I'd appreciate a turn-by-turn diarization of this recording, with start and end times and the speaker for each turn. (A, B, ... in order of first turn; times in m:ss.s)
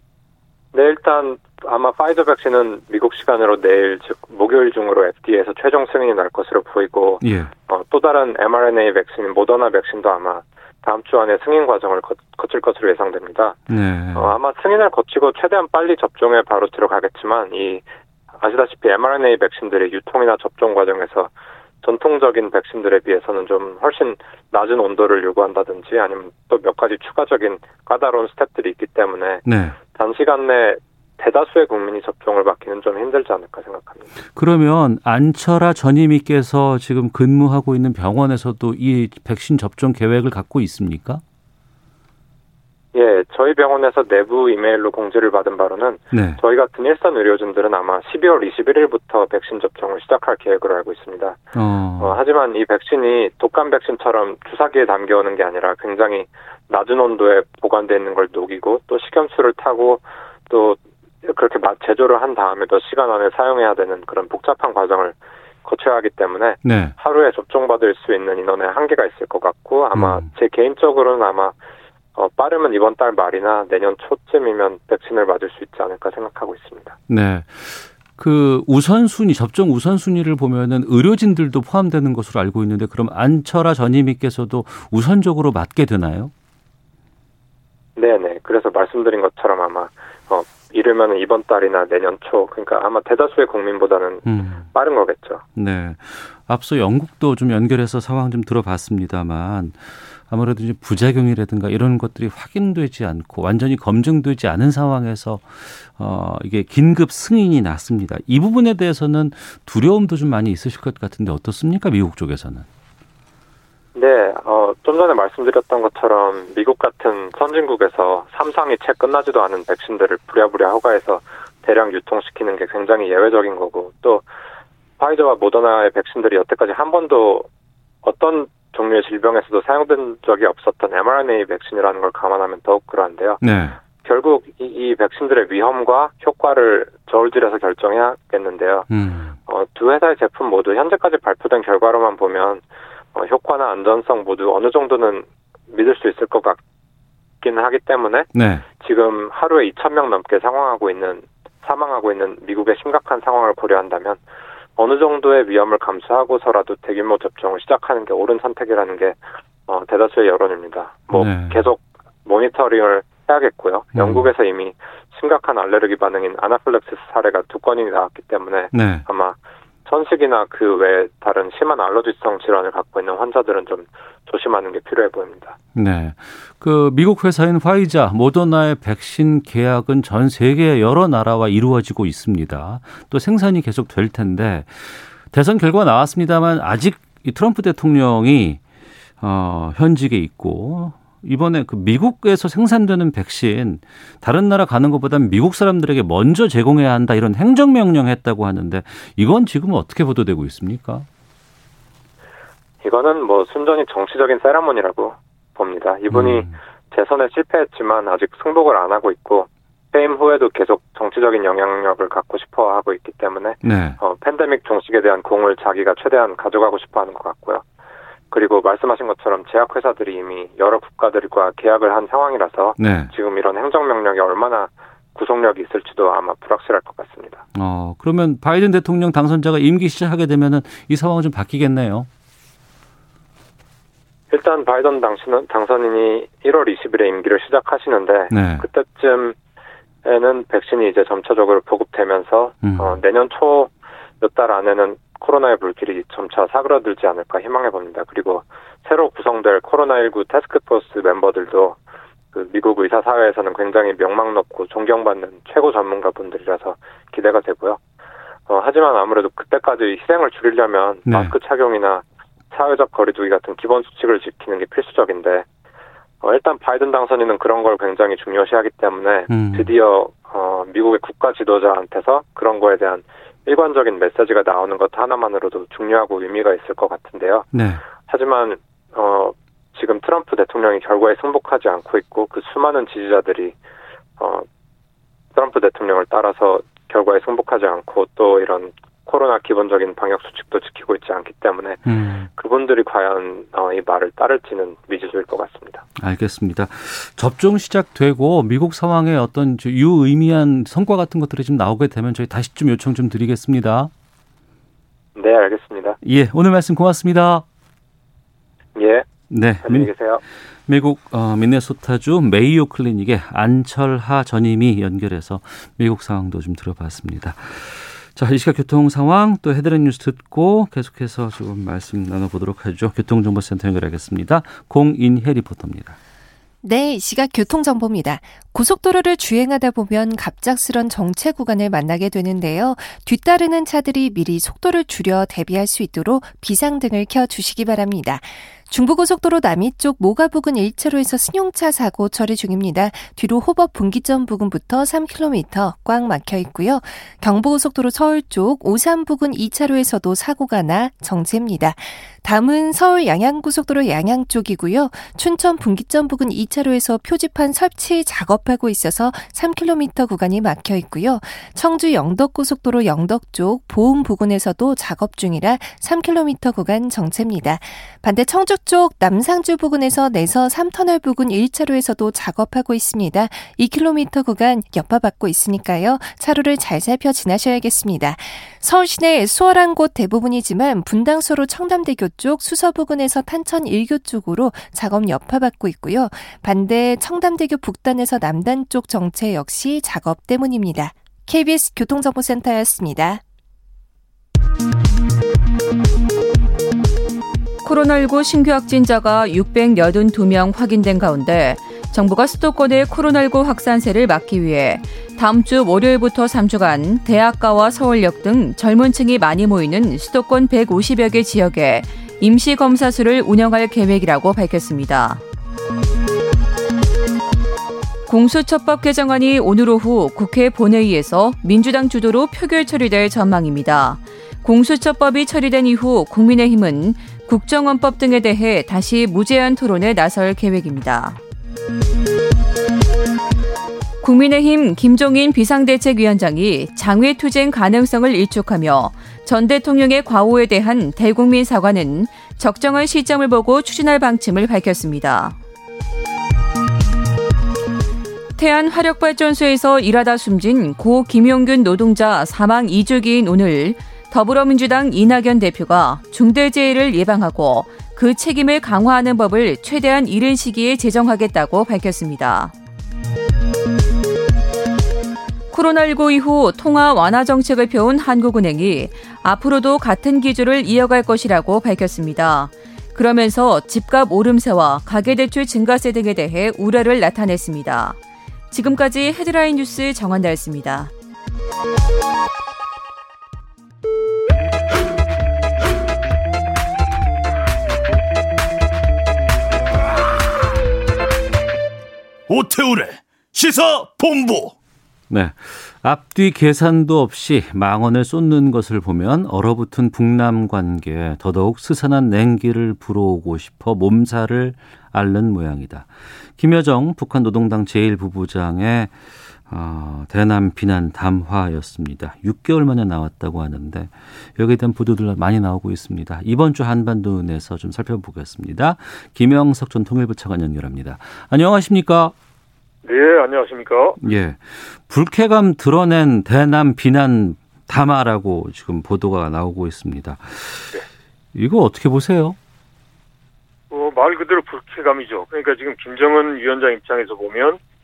0:00.7-0:13.6 A
0:07.2-0:07.5 B
0:13.7-0:14.4 B
0:14.1-0:17.8 A
0:18.4-0:34.0 A
0:29.4-0:29.8 B
0:34.3-0:41.2 B
0:42.9-0:51.4 A
0:46.1-0:46.4 B
0:51.5-0:52.2 B
0:52.0-1:11.5 A
1:06.6-1:06.9 B
1:09.9-1:10.2 B
1:12.1-1:16.9 A
1:17.1-1:26.3 B
1:28.0-1:35.4 A
1:34.2-1:34.7 B
1:35.6-1:52.6 B
1:53.9-2:04.2 A
2:05.0-2:07.5 A
2:08.0-2:13.4 A
2:13.4-2:13.8 B
2:14.0-2:18.9 A
2:18.9-2:19.4 B
2:19.5-2:22.6 A
2:23.1-2:26.6 A
2:27.4-2:34.2 A
2:28.3-2:28.6 B
2:34.8-2:55.5 A
2:41.1-2:41.7 B
2:43.9-2:44.3 B
2:48.7-2:49.0 B
2:55.7-3:08.6 B
3:09.2-3:21.1 B
3:22.8-3:37.6 A
3:26.1-3:26.5 B
3:33.6-3:34.0 B
3:38.3-3:47.4 A
3:42.8-3:43.1 B
3:47.5-3:52.1 B
3:54.3-3:59.4 A
3:58.3-3:58.6 B
4:00.0-4:11.8 A
4:02.6-4:03.0 B
4:12.3-4:17.8 A
4:18.5-4:25.4 A
4:21.1-4:21.3 B
4:26.2-4:37.5 A
4:29.3-4:29.7 B
4:37.5-4:37.8 B
4:38.0-4:43.5 A
4:44.2-4:44.4 A
4:45.3-4:51.8 A
4:51.8-4:52.3 B
4:52.4-4:55.8 A
4:56.0-5:03.9 B
5:05.2-5:06.0 A
5:06.0-5:07.4 B
5:08.8-5:09.1 A
5:09.3-5:09.9 B
5:09.6-5:10.2 A
5:10.7-5:26.0 B
5:26.6-6:33.2 C
6:37.6-6:55.2 D
6:58.1-7:11.2 D
7:14.0-7:25.4 D
7:28.4-7:42.5 D
7:45.5-7:58.0 D
7:58.5-8:00.9 D
8:12.3-8:14.5 E
8:15.1-8:28.9 B
8:29.5-8:42.1 B
8:42.8-8:44.0 F
8:44.0-8:50.8 B
8:51.3-8:52.4 B
8:53.7-8:57.6 F